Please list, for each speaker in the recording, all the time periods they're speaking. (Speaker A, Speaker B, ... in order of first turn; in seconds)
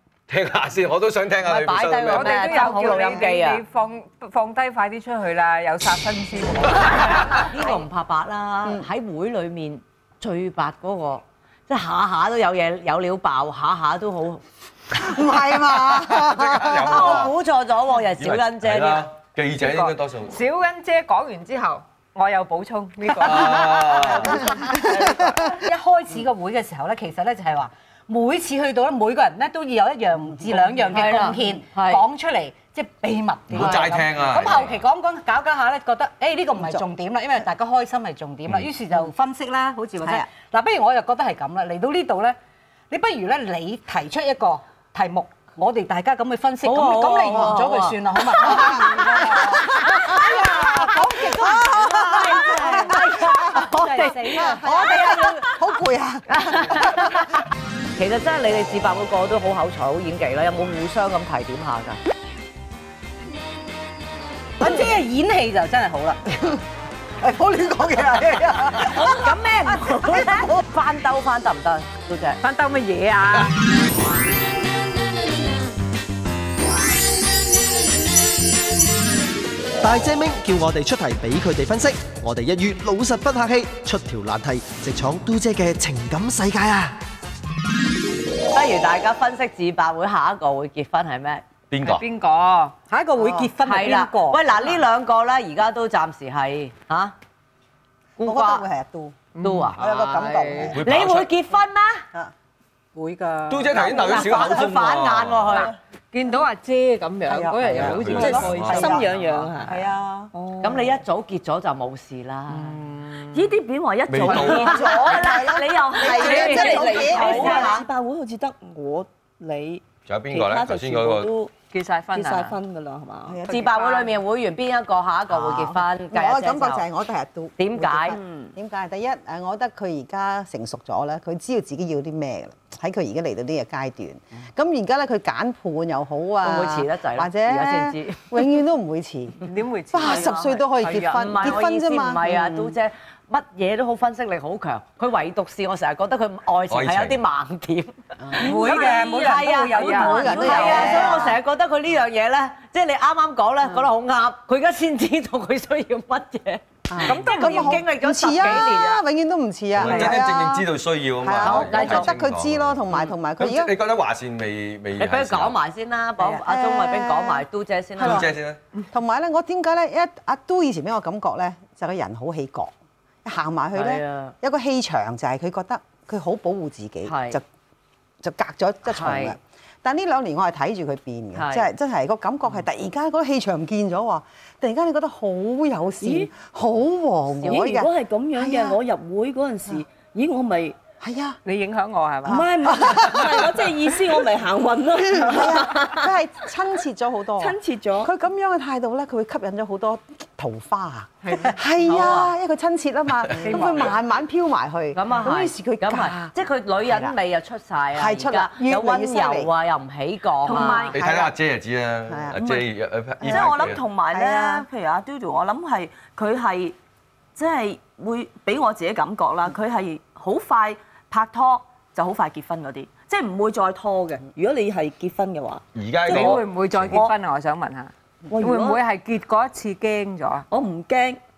Speaker A: 0.3-2.7, 16.1-17.3, 18.2-20.4, 23.2-24.4, 33.5-34.8, 91.7-92.0, 100.7-101.3, 103.5-105.7, 107.7-109.0, 114.1-114.8, 120.1-121.3, 146.7-147.2, 159.8-162.8, 163.4-165.6, 168.0-168.6, 210.9-213.8, 225.8-227.0
Speaker B: 1.4-3.6, 7.3-14.4, 16.8-19.1, 30.5-32.0, 46.6-50.9, 51.6-55.6, 56.3-57.4, 58.0-62.0, 68.9-72.4, 88.5-91.5, 93.6-97.2, 98.2-98.6, 99.4-99.8, 100.8-102.0, 103.7-105.7, 110.6-112.8, 114.3-117.8, 123.5-126.8, 127.6-128.2, 136.4-138.5, 141.2-159.0, 159.8-160.2, 161.4-162.2, 165.0-168.3, 173.8-174.3, 177.1-177.4, 178.9-179.4, 181.3-181.7, 187.4-187.7, 201.8-202.3, 203.5-203.9, 204.9-211.0
Speaker C: 2.1-7.8, 19.6-25.4, 72.4-73.5, 91.8-92.8, 99.3-100.8, 106.1-109.5, 112.5-113.5, 116.2-117.6, 121.7-122.6, 123.5-124.1, 139.4-141.6, 148.4-151.2, 157.0-157.8, 158.4-158.9, 191.4-192.5, 201.2-201.6, 203.3-204.0, 226.1-230.4
Speaker D: 14.9-17.3, 24.7-25.1, 40.0-40.3, 48.5-57.3, 67.2-69.2, 70.0-70.6, 93.2-93.5, 98.2-99.2, 99.8-100.8, 107.3-109.0, 109.6-110.3, 114.3-117.8, 123.3-124.0, 125.3-142.8, 150.0-151.4, 156.9-163.7, 166.2-167.5, 168.0-168.3, 168.9-172.7, 173.2-177.4, 178.2-188.8, 191.0-191.4, 192.3-193.7, 195.2-207.2, 207.9-209.5, 210.5-211.3, 212.1-212.4, 213.2-214.7
Speaker E: 25.1-42.4, 42.9-55.1, 64.6-66.4, 92.9-94.5, 103.0-104.4, 148.4-151.1
Speaker F: 79.8-87.0
Speaker G: 108.1-109.8, 110.3-111.0, 113.3-121.5, 122.1-123.4, 128.1-128.5, 186.0-186.3, 187.5-190.8, 192.3-196.1, 197.4-198.1, 210.4-211.0, 212.3-216.8, 217.4-227.1, 228.3-228.8, 230.5-231.2